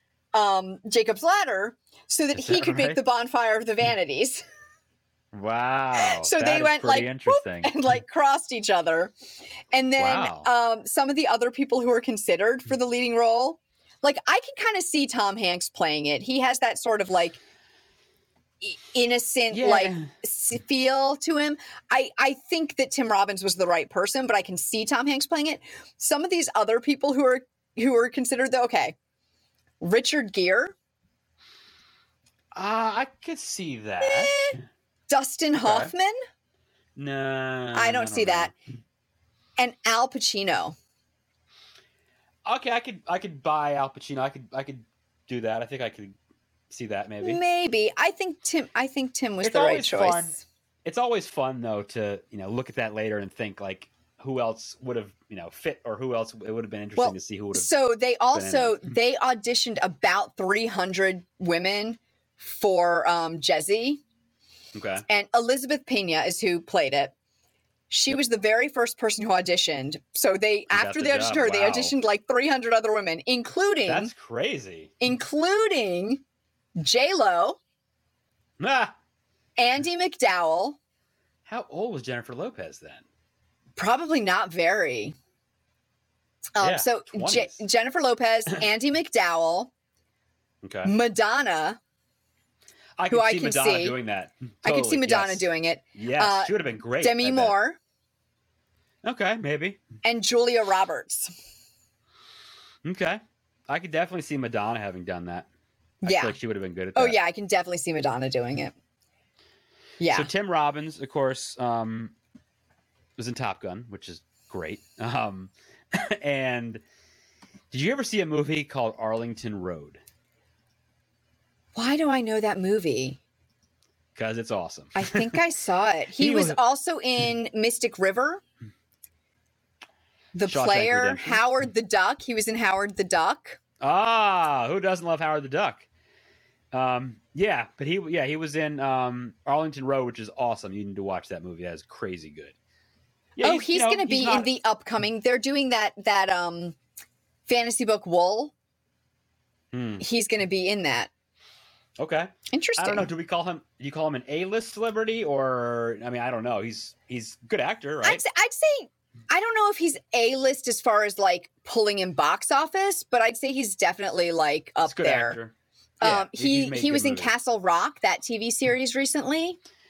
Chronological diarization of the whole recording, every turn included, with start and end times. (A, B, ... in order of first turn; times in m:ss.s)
0:00.3-0:04.4 A
0:02.4-0:03.0 B
0:05.3-0:07.7 B
0:06.0-0:09.1 A
0:09.7-0:17.4 A
0:10.0-0:10.5 B
0:18.6-0:29.0 A
0:19.5-0:20.1 B
0:29.8-0:30.7 A
0:32.5-0:34.6 B
0:34.0-0:34.6 A
0:35.1-0:36.2 A
0:35.6-0:35.9 B
0:37.0-0:38.5 B
0:37.7-0:38.5 A
0:39.6-0:40.8 A
0:42.4-0:46.1 B
0:46.7-0:47.4 B
0:47.2-0:50.4 A
0:49.4-0:57.7 B
0:57.0-1:04.0 A
0:58.3-0:58.8 B
1:04.7-1:05.0 B
1:05.1-1:07.1 A
1:07.9-1:14.1 A
1:10.7-1:11.9 B
1:13.9-1:14.9 B
1:15.0-1:16.2 A
1:16.8-1:17.6 A
1:18.6-1:18.9 B
1:19.6-1:20.8 A
1:21.4-1:23.0 B
1:23.8-1:25.1 A
1:26.5-1:29.7 A
1:26.6-1:27.6 B
1:30.6-1:30.9 B
1:30.8-1:31.8 A
1:33.0-1:37.6 B
1:33.1-1:34.0 A
1:34.6-1:37.8 A
1:39.0-1:39.8 B
1:40.0-1:41.3 A
1:42.8-1:45.5 B
1:46.0-1:46.4 A
1:46.0-1:47.2 B
1:46.9-1:48.7 A
1:50.0-1:50.3 A
1:50.1-1:52.1 B
1:53.2-1:56.8 B
1:57.7-2:00.0 B
2:01.7-2:03.2 A
2:04.2-2:05.3 B
2:04.9-2:08.4 A
2:06.2-2:06.6 B
2:10.3-2:13.6 A
2:10.4-2:11.4 B
2:13.8-2:15.8 B
2:16.7-2:22.5 B
2:23.4-2:24.5 B
2:23.4-2:26.8 A
2:27.5-2:28.5 A
2:29.7-2:30.0 B
2:30.0-2:31.1 A
2:32.0-2:38.2 B
2:32.5-2:33.1 A
2:38.0-2:45.4 A
2:44.8-2:47.3 B
2:46.0-2:49.6 A